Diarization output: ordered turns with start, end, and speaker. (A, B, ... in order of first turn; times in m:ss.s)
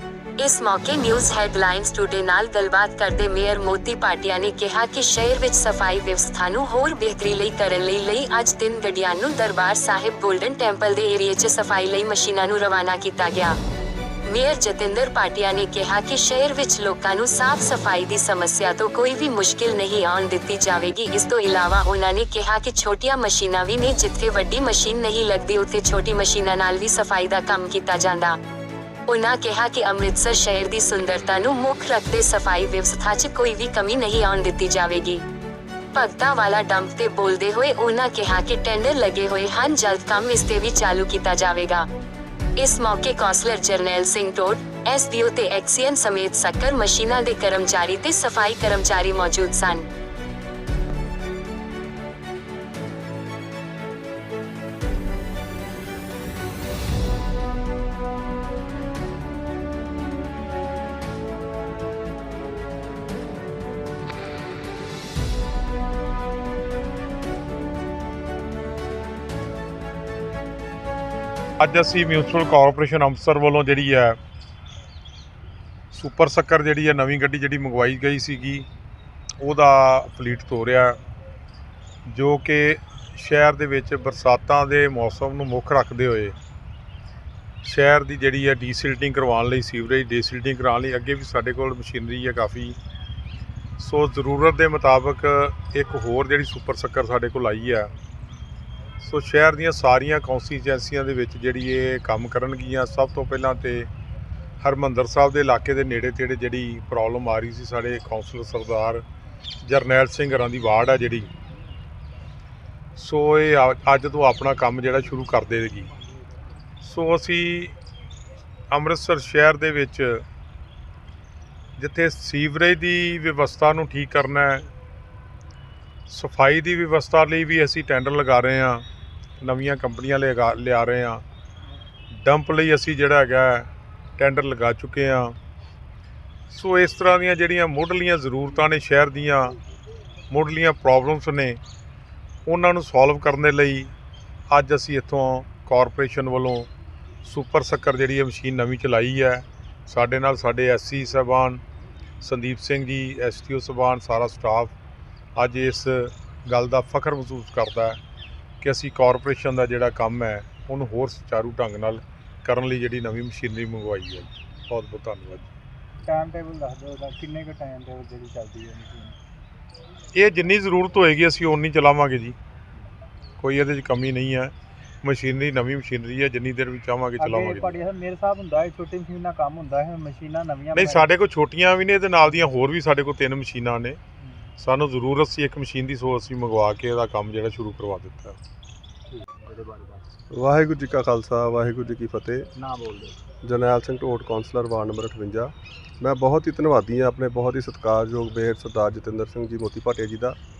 0:00.4-0:13.6 A
0:14.3-0:28.4 A
0:29.1-0:35.2 A
0:35.9-0:41.8 A
0:42.6-0:49.8 A
1:11.6-1:14.2 B
1:15.9-1:18.7 B
1:19.4-1:21.0 B
1:22.1-1:26.3 B
1:27.6-1:32.8 B
1:33.8-1:37.9 B
1:39.0-1:43.9 B
1:44.6-1:49.0 B
1:49.6-1:51.3 B
1:53.0-1:55.9 B
1:56.8-1:57.7 B
1:58.7-2:00.2 B
2:01.8-2:04.6 B
2:06.1-2:08.8 B
2:09.4-2:11.2 B
2:12.1-2:15.4 B
2:16.5-2:19.6 B
2:20.3-2:21.6 B
2:22.4-2:23.9 B
2:24.5-2:26.7 B
2:27.2-2:31.6 B
2:32.2-2:34.7 B
2:35.4-2:38.0 B
2:38.6-2:45.5 B
2:46.0-2:49.1 C
2:50.1-2:52.4 B
2:53.4-2:57.8 B
2:57.2-3:01.1 C
3:00.7-3:04.0 B
3:04.6-3:08.4 B
3:09.2-3:10.0 C
3:10.3-3:12.5 D
3:12.5-3:13.2 C
3:13.4-3:20.4 D